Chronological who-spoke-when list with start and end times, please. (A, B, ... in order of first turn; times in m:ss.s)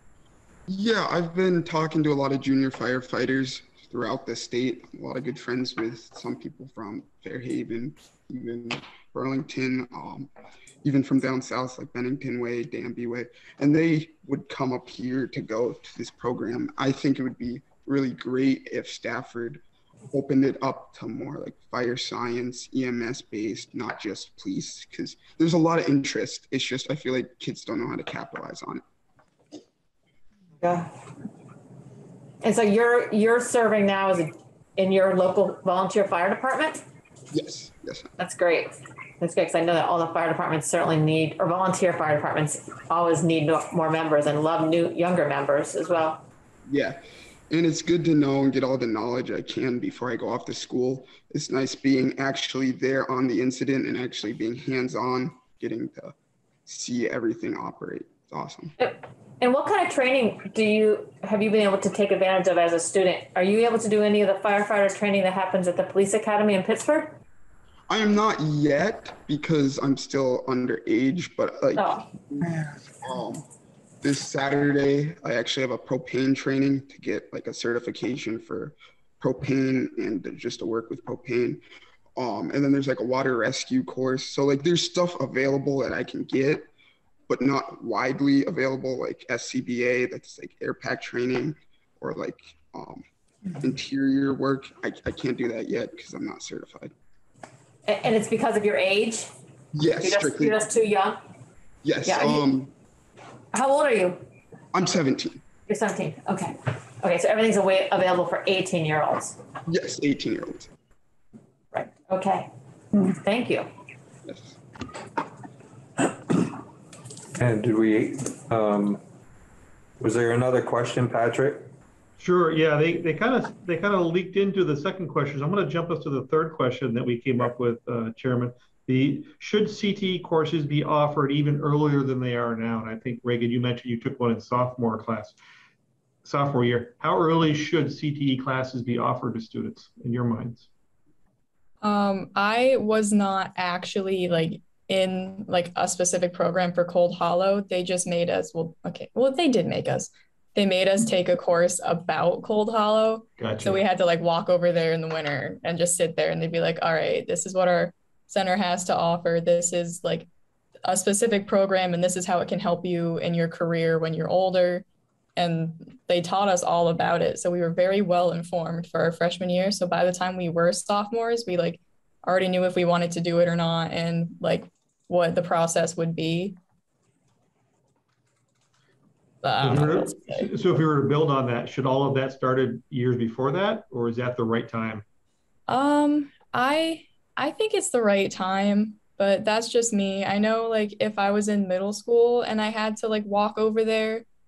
0:00.7-0:10.3 A
0:10.8-0:28.8 A
0:30.6-0:30.9 B
0:32.4-0:36.8 B
0:37.3-0:38.1 A
0:38.2-0:46.2 B
0:46.7-0:56.1 A
0:56.6-0:58.7 A
0:58.8-1:07.2 B
1:07.9-1:13.4 A
1:11.8-1:12.0 B
1:14.0-1:21.6 A
1:22.2-1:26.7 A
1:27.3-1:33.0 A
1:33.5-1:36.9 A
1:37.9-1:39.3 B
1:39.7-1:40.6 A
1:40.0-1:41.2 B
1:41.8-1:42.7 A
1:42.0-1:42.4 B
1:43.5-1:44.2 B
1:44.7-1:45.4 A
1:45.7-1:49.4 B
1:49.6-1:50.7 A
1:51.7-1:53.7 B
1:54.2-1:54.6 A
1:57.3-1:59.0 C
2:00.0-2:01.7 C
2:02.2-2:15.4 D
2:16.2-2:20.7 D
2:21.8-2:40.3 E
2:33.4-2:33.8 D
2:40.8-2:44.8 E
2:45.4-2:56.6 E
2:59.4-3:00.5 E
2:59.6-3:05.0 D
3:05.7-3:14.2 E